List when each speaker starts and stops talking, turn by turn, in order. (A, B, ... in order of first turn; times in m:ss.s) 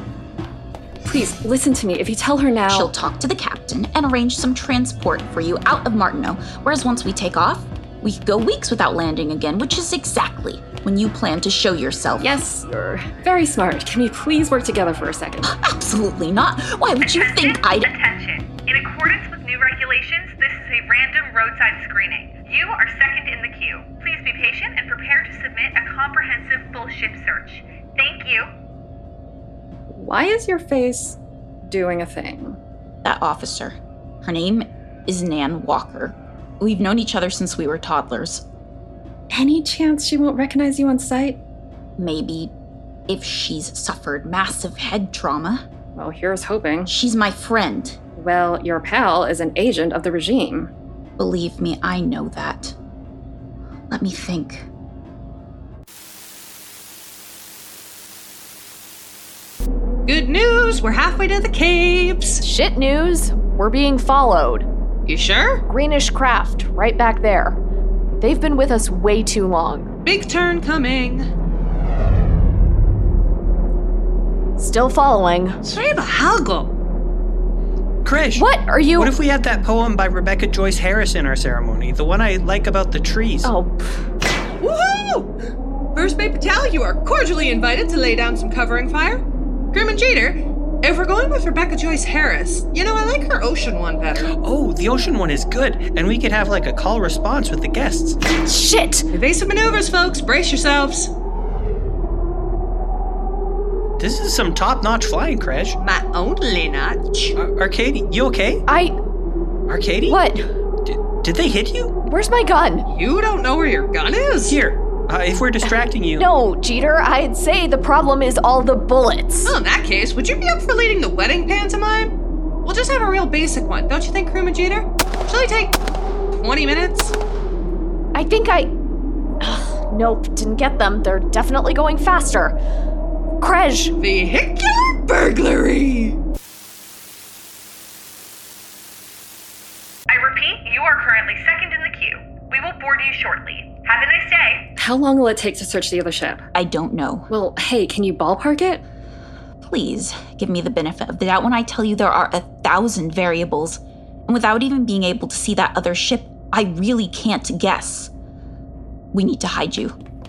0:01.0-0:02.9 A
0:02.7-0:12.3 B
0:12.2-0:15.5 A
0:15.4-0:17.9 B
0:17.0-0:28.5 C
0:29.9-0:32.6 A
0:33.0-0:38.4 B
0:39.3-0:41.4 A
0:42.0-0:42.5 B
0:43.1-0:45.6 B
0:45.9-0:46.9 A
0:46.8-0:48.0 B
0:48.1-0:50.7 A
0:51.2-0:52.7 B
0:53.9-0:54.7 B
1:00.0-1:02.4 D
1:02.4-1:04.7 E
1:05.0-1:05.6 D
1:05.7-1:07.6 E
1:08.2-1:09.9 E
1:10.0-1:11.3 D
1:14.6-1:15.6 E
1:15.6-1:16.7 D
1:18.0-1:23.5 F
1:18.3-1:19.1 E
1:23.4-1:24.1 E
1:24.6-1:25.3 D
1:25.9-1:29.2 D
1:29.7-1:34.3 D
1:34.2-1:38.2 F
1:38.4-1:39.1 E
1:39.1-1:41.1 D
1:44.0-1:45.8 F
1:45.8-1:47.4 D
1:47.4-1:48.6 F
1:48.7-1:49.0 E
1:49.7-1:50.2 F
1:50.1-1:50.4 E
1:50.8-1:51.9 F
1:52.0-1:52.8 E
1:52.9-1:54.6 D
1:54.4-1:56.3 F
1:55.6-1:59.5 E
1:59.4-2:02.1 D
2:02.6-2:05.8 D
2:06.3-2:07.2 D
2:08.1-2:08.7 E
2:09.4-2:12.6 E
2:13.4-2:13.9 E
2:14.0-2:16.2 D
2:20.1-2:24.7 C
2:24.8-2:26.4 A
2:26.5-2:27.3 B
2:27.3-2:28.8 A
2:29.6-2:38.1 B
2:39.1-2:39.9 B